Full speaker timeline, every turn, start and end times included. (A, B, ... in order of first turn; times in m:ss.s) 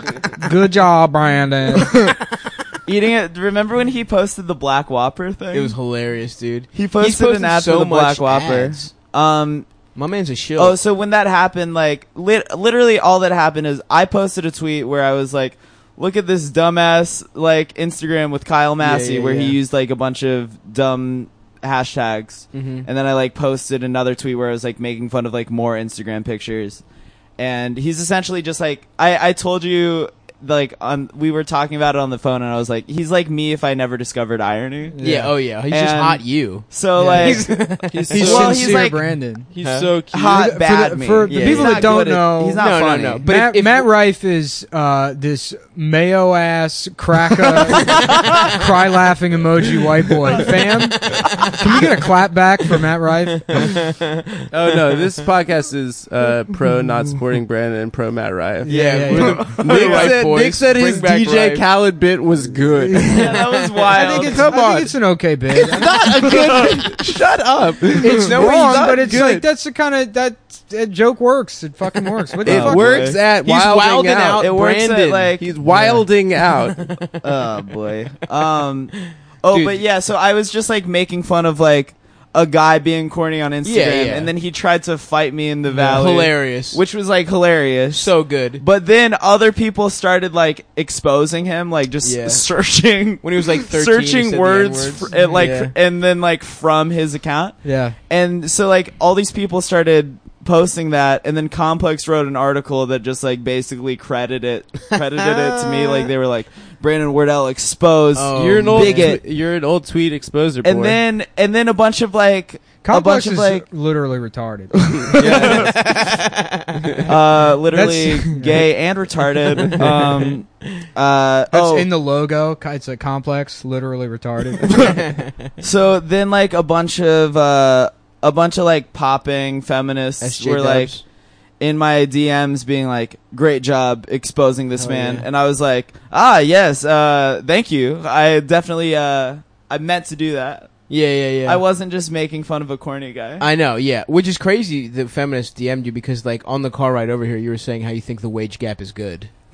0:00.4-0:02.0 A
0:02.8-0:05.8 B
0:05.5-0:08.9 C
0:06.7-0:09.7 B
0:10.0-0:10.8 C
0:10.6-0:26.8 B
0:18.8-0:19.6 C
0:22.5-0:22.9 C
0:27.4-0:35.0 B
0:34.9-0:35.3 A
0:35.0-0:38.7 C
0:35.5-0:39.2 B
0:37.0-0:37.4 A
0:37.9-0:38.7 D
0:38.1-0:39.5 A
0:39.5-0:40.5 D
0:39.6-0:39.9 C
0:40.1-0:43.3 B
0:40.3-0:42.6 A
0:41.3-0:43.9 C
0:43.2-0:53.7 A
0:50.3-0:51.8 C
0:53.5-0:55.1 C
0:54.5-1:03.2 D
0:58.6-0:59.6 A
0:58.6-1:01.6 C
0:59.1-1:00.2 B
1:02.9-1:03.2 A
1:03.1-1:04.9 C
1:03.1-1:04.6 B
1:03.9-1:06.0 A
1:04.4-1:04.9 D
1:05.5-1:09.4 D
1:05.7-1:07.1 C
1:08.0-1:09.4 C
1:08.2-1:13.0 A
1:12.4-1:14.4 D
1:12.4-1:13.2 B
1:12.8-1:17.1 C
1:14.4-1:15.5 B
1:15.4-1:16.9 D
1:17.2-1:49.2 B
1:19.5-1:19.8 C
1:23.6-1:24.3 C
1:25.7-1:26.8 C
1:27.9-1:28.6 C
1:32.0-1:32.4 C
1:33.2-1:35.8 C
1:35.1-1:35.4 A
1:37.6-1:38.0 A
1:45.0-1:46.1 C
1:48.1-1:49.2 C
1:48.3-1:51.0 D
1:50.6-1:53.6 B
1:52.8-1:55.7 A
1:55.0-1:55.9 B
1:55.2-1:57.1 C
1:57.0-2:01.9 B
1:57.7-1:58.6 A
2:01.5-2:04.9 A
2:04.8-2:05.5 C
2:05.6-2:11.0 B
2:10.2-2:11.0 C
2:11.6-2:20.8 B
2:14.8-2:15.3 C
2:20.9-2:21.6 C
2:21.4-2:23.5 B
2:23.4-2:29.3 C